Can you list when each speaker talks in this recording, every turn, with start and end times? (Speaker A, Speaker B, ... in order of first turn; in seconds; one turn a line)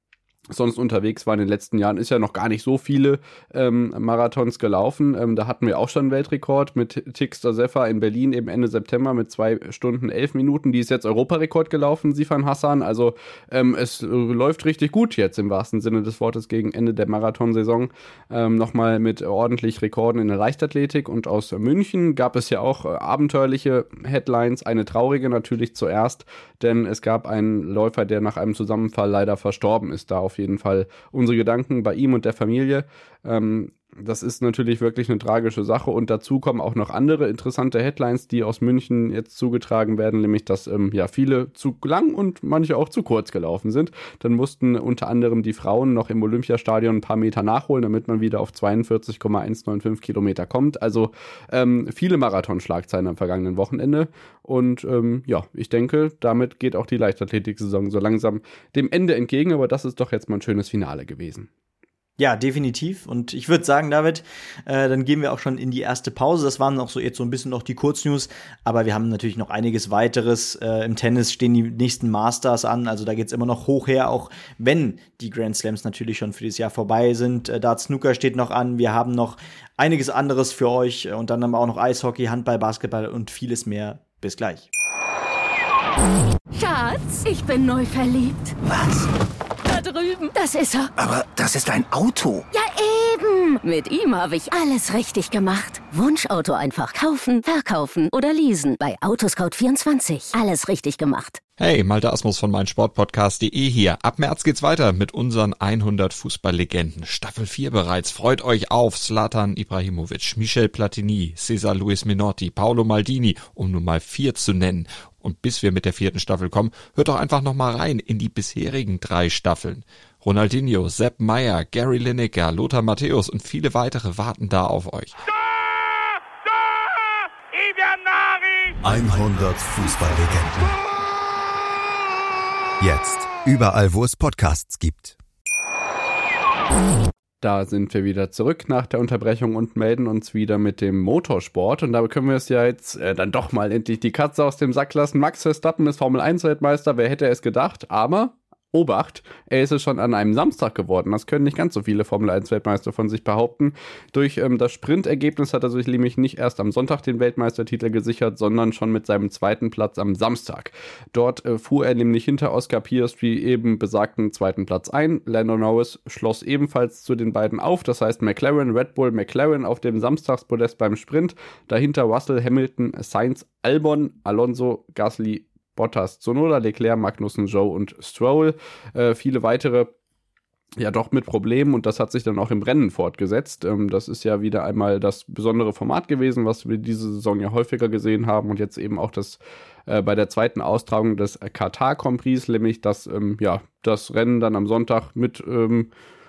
Speaker A: 0.5-61.5
Speaker B: 62.2-84.7
Speaker C: 86.5-88.6
Speaker D: 88.6-89.1
Speaker C: 89.6-90.9
Speaker D: 91.0-92.5
Speaker C: 92.5-101.4
Speaker E: 101.6-125.2
Speaker F: 128.8-130.8
Speaker F: 132.8-135.2
Speaker A: 137.4-179.9
Speaker A: 180.8-195.9